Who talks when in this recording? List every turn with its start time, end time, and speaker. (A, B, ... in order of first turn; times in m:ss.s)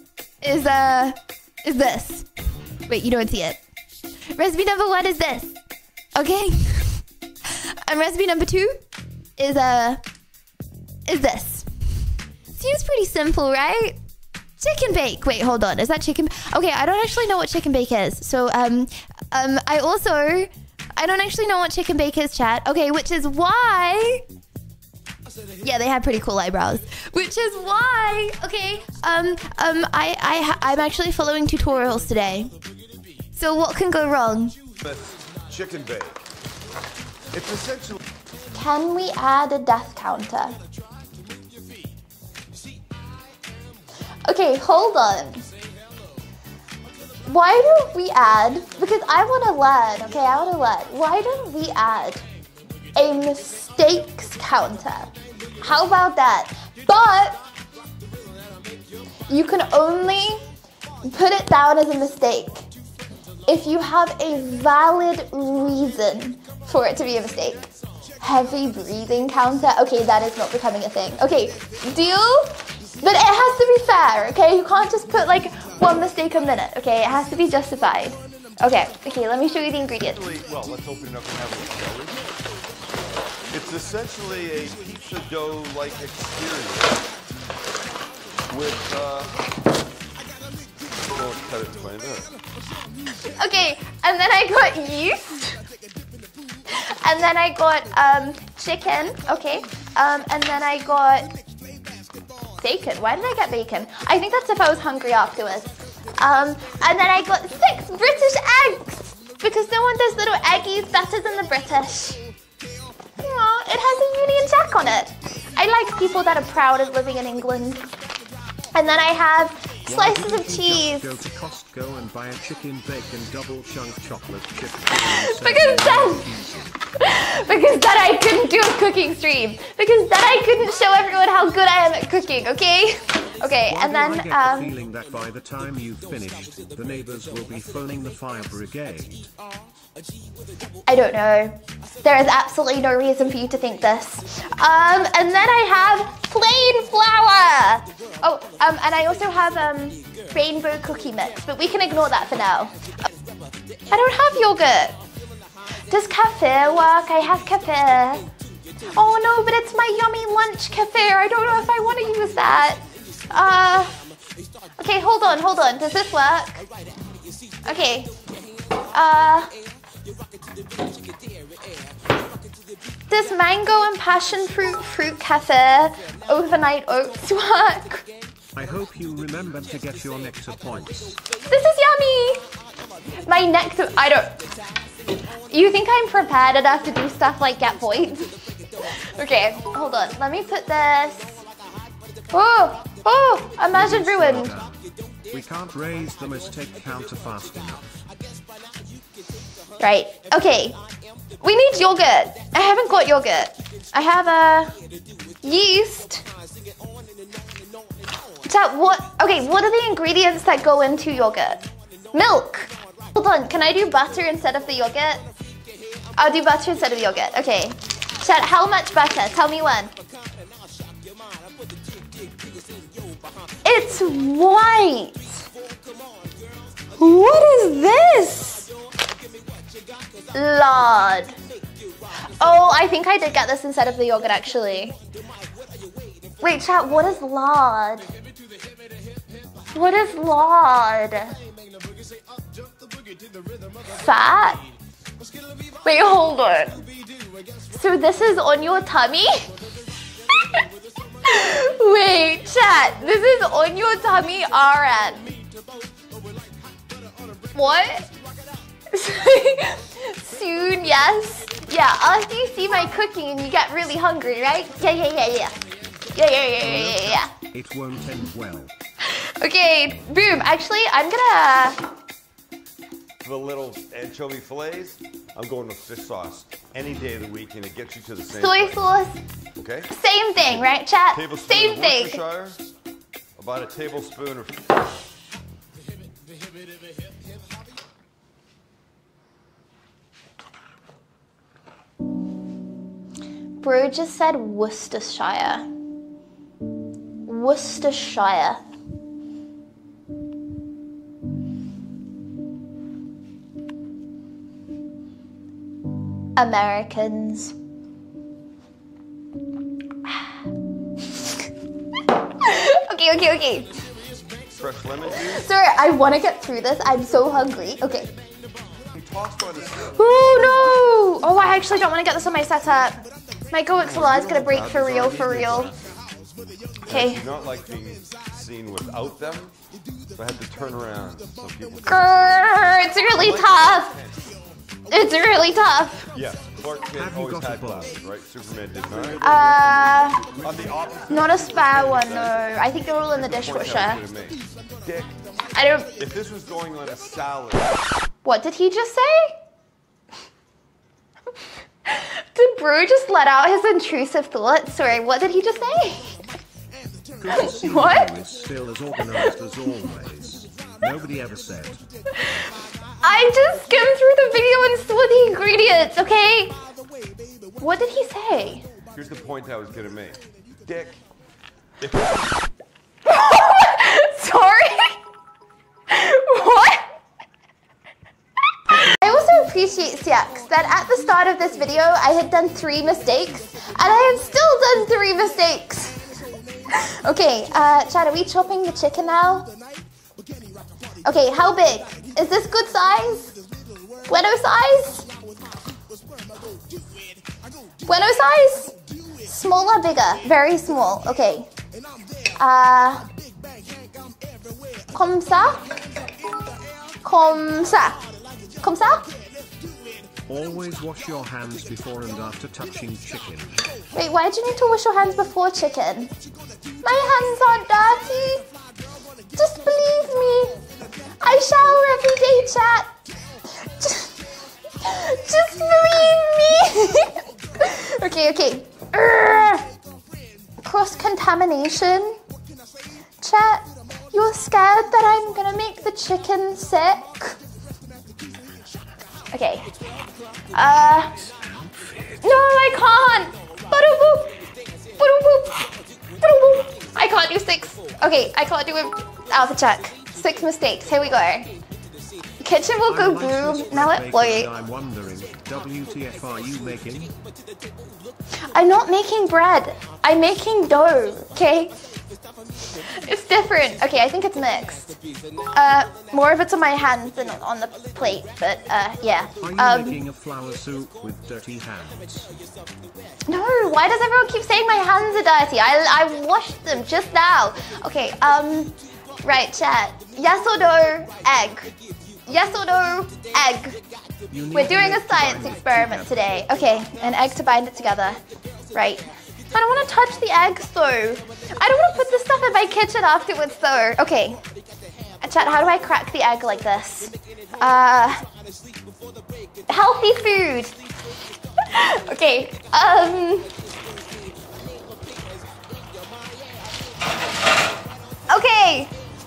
0:00.4-0:02.3 A
0:02.9-0:03.6 A
0:04.3-0:05.6 A
0:06.2-0:08.8 A
0:09.4-0:10.0 A
0:11.1-0:11.7 A
0:12.5-0:14.0 A
0:14.6-0:24.3 A
0:25.6-0:32.5 A
0:33.3-0:34.6 A
0:34.8-0:36.2 B
0:37.3-0:38.0 B
0:38.5-0:40.6 A
0:44.3-0:45.5 A
0:47.3-0:52.3 A
0:53.0-0:57.4 A
0:59.3-1:00.4 A
1:01.0-1:02.7 A
1:03.5-1:20.2 A
1:20.0-1:22.2 B
1:23.5-1:27.1 B
1:28.5-1:29.5 B
1:31.0-1:32.3 B
1:33.2-1:35.7 A
1:36.7-1:41.3 A
1:42.6-1:52.2 A
1:53.2-1:57.9 A
1:58.7-2:01.2 A
1:59.9-2:06.7 C
2:05.0-2:06.3 A
2:06.9-2:14.8 A
2:13.6-2:19.3 C
2:20.9-2:32.8 A
2:33.9-2:35.0 A
2:35.9-2:38.3 A
2:38.9-2:44.0 A
2:44.8-2:46.6 A
2:47.6-2:48.1 A
2:48.9-2:49.5 A
2:53.1-2:58.1 A
2:58.6-3:01.2 C
3:01.5-3:02.5 A
3:03.2-3:04.5 A
3:05.5-3:11.4 A
3:12.3-3:14.6 A
3:13.7-3:17.9 C
3:19.8-3:20.8 A
3:21.4-3:24.7 A
3:25.4-3:26.2 A
3:28.4-3:35.3 A
3:36.2-3:39.9 A
3:43.6-3:45.4 A
3:47.0-3:48.7 A
3:50.3-3:51.4 A
3:52.4-3:55.0 A
3:56.4-3:58.1 A
3:59.7-4:01.4 A
4:03.8-4:04.6 A
4:05.8-4:06.8 A
4:07.7-4:09.5 A
4:10.3-4:10.6 A
4:11.2-4:15.4 A
4:17.5-4:18.1 A
4:18.9-4:25.6 A
4:26.1-4:27.3 A
4:26.6-4:28.7 C
4:29.0-4:31.8 A
4:33.2-4:38.8 B
4:38.3-4:39.2 A
4:39.6-4:39.9 B
4:39.9-4:42.2 A
4:40.4-4:42.6 B
4:43.4-4:44.8 B
4:53.6-4:55.7 A
4:57.2-4:58.6 A
5:06.4-5:07.6 A
5:12.3-5:13.7 A
5:14.6-5:15.4 B
5:15.1-5:18.1 A
5:18.9-5:20.5 B
5:19.8-5:25.8 A
5:23.8-5:26.0 B
5:26.9-5:27.2 A
5:26.9-5:29.5 B
5:30.2-5:32.2 B
5:31.9-5:33.9 A
5:33.1-5:34.4 B
5:34.9-5:36.1 A
5:36.1-5:39.3 B
5:36.8-5:38.0 C
5:39.2-5:40.3 A
5:39.3-5:41.0 C
5:40.4-5:42.4 B
5:41.1-5:44.0 A
5:43.1-5:45.2 B
5:45.5-5:46.0 A
5:46.0-5:47.8 B
5:48.2-5:49.3 A
5:51.9-5:56.2 A
5:57.2-6:01.8 C
5:57.3-5:58.1 A
6:02.2-6:02.5 A
6:03.0-6:06.6 A
6:07.6-6:08.7 A
6:08.9-6:11.0 B
6:11.8-6:12.3 B
6:13.0-6:15.0 A
6:15.9-6:16.9 A
6:18.7-6:26.0 A
6:26.7-6:29.5 A
6:31.0-6:33.4 A
6:34.1-6:35.1 A
6:37.8-6:41.5 A
6:42.4-6:43.1 A
6:44.9-6:45.8 A
6:47.0-6:48.0 A
6:48.6-6:49.1 A
6:50.3-6:53.7 C
6:53.9-6:56.1 A
6:56.8-6:58.5 A
6:59.4-7:00.6 A
7:01.2-7:02.9 A
7:03.5-7:04.2 A
7:04.7-7:09.7 A
7:10.6-7:12.2 A
7:13.2-7:17.4 A
7:19.3-7:19.7 A
7:20.5-7:21.1 A
7:21.2-7:22.3 C
7:22.2-7:24.4 A
7:25.0-7:31.5 A
7:32.4-7:34.5 A
7:32.9-7:37.1 C
7:38.4-7:41.7 A
7:42.8-7:45.0 A
7:45.5-7:50.0 A
7:49.4-7:52.3 C
7:53.3-8:01.7 A
8:02.3-8:03.8 A
8:04.3-8:06.4 C
8:04.5-8:08.2 A
8:08.7-8:14.4 A
8:15.2-8:18.3 A
8:19.7-8:20.8 A
8:21.6-8:23.6 A
8:28.3-8:28.9 A